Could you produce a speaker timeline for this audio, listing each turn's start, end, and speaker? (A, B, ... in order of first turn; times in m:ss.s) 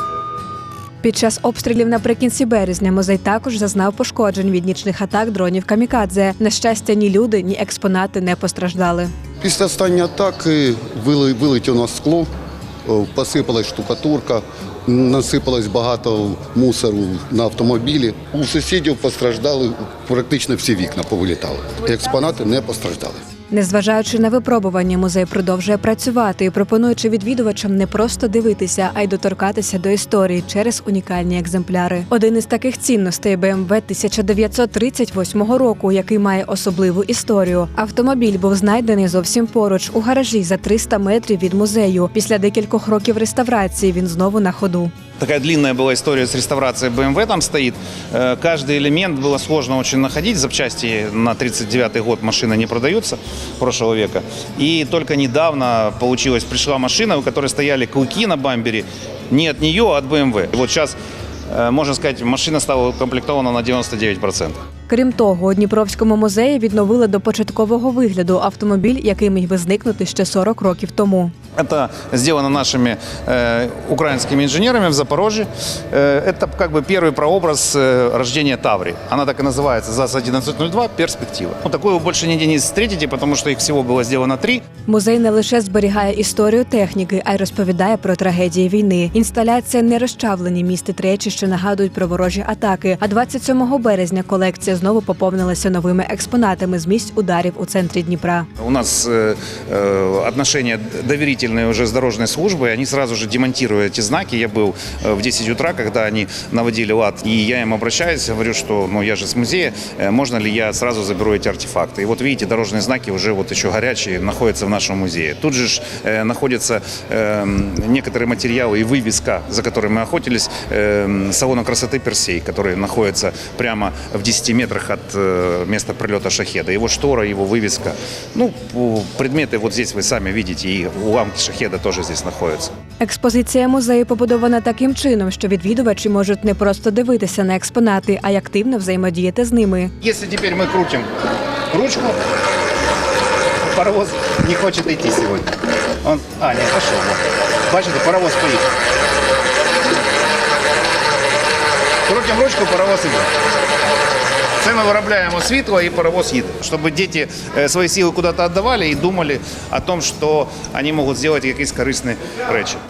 0:01.0-0:09.1 A
0:09.4-0:12.3 B
0:12.9-0:23.2 B
0:23.5-0:44.9 A
0:45.2-1:01.0 C
1:01.5-1:04.6 C
1:04.9-1:11.3 A
1:11.6-1:24.6 C
1:24.9-1:38.5 A
1:38.6-2:12.7 C
2:13.0-2:19.9 A
2:20.0-2:21.1 C
2:21.7-2:22.2 C
2:23.6-2:28.7 C
2:32.1-2:33.3 C
2:34.6-2:42.8 C